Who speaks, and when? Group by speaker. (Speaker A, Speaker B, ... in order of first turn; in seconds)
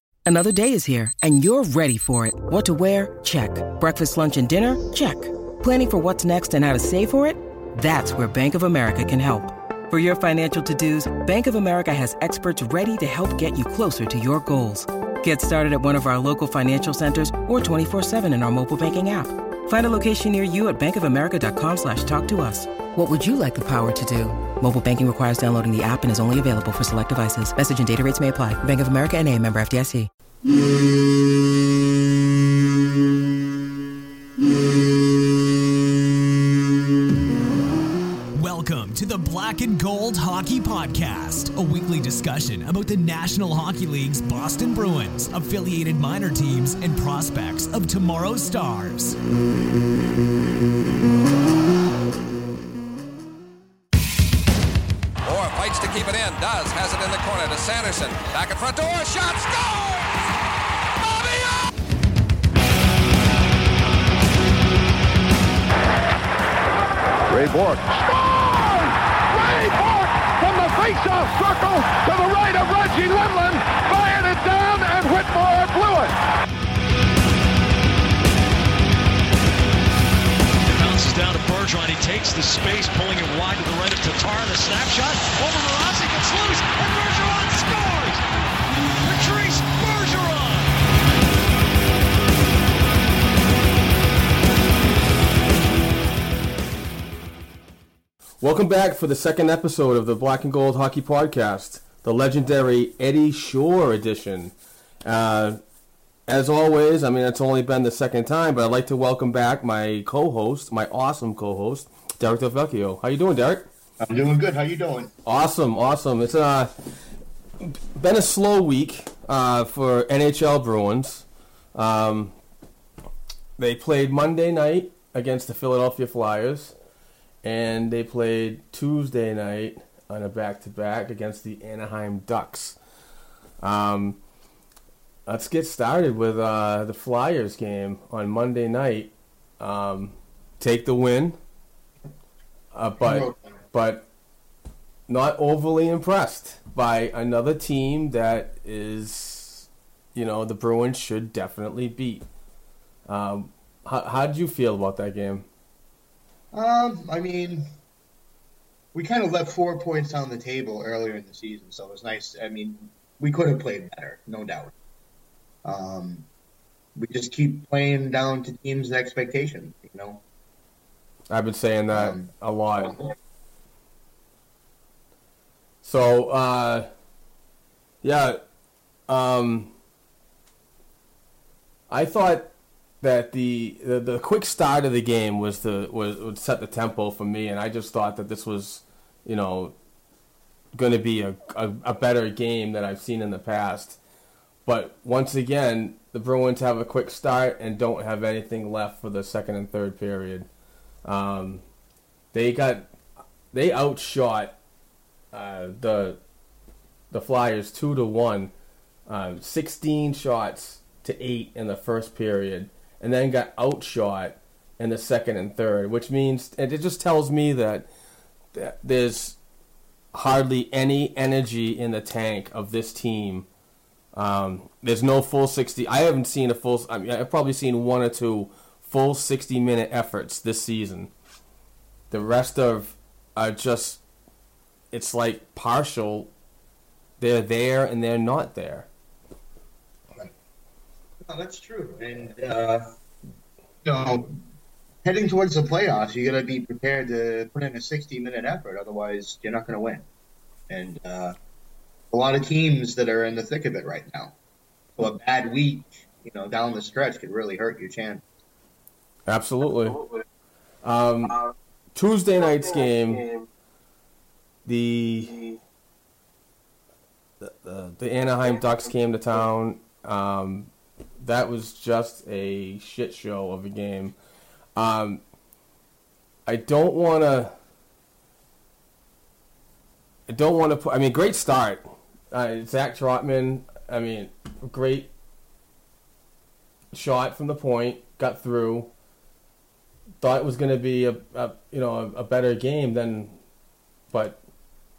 Speaker A: 0.2-30.1
Speaker B: 38.4-49.2
Speaker C: 55.2-60.1, 61.0-61.6
Speaker D: 67.3-76.2
Speaker E: 80.6-88.2, 89.0-90.7
Speaker F: 98.4-104.5, 105.0-105.6, 106.3-113.7, 115.2-116.9, 117.6-122.3, 123.6-126.7, 127.4-132.8, 133.6-134.2, 135.2-141.4, 142.7-144.1, 145.1-152.2, 153.1-155.4, 171.3-173.0, 175.8-176.9, 178.0-178.4, 179.1-179.7, 181.9-189.7, 190.7-194.0, 194.7-200.5, 201.0-201.6, 202.3-202.9, 203.5-204.6, 205.3-206.2, 207.1-208.5, 209.1-217.9, 218.5-219.4, 220.1-223.4, 224.1-231.1, 232.1-234.0, 234.9-236.3, 237.2-238.9, 259.3-260.1, 260.8-263.4, 264.6-265.4, 267.4-274.1, 274.8-275.2, 276.5-277.5, 280.3-285.1, 286.9-288.9, 290.2-293.4, 294.1-294.4
Speaker G: 114.0-115.1, 143.0-143.6, 156.5-157.7, 158.9-164.7, 165.6-166.3, 166.9-170.2, 171.9-172.3, 241.2-242.9, 243.8-244.4, 245.0-250.1, 250.7-251.3, 252.1-254.3, 255.0-258.2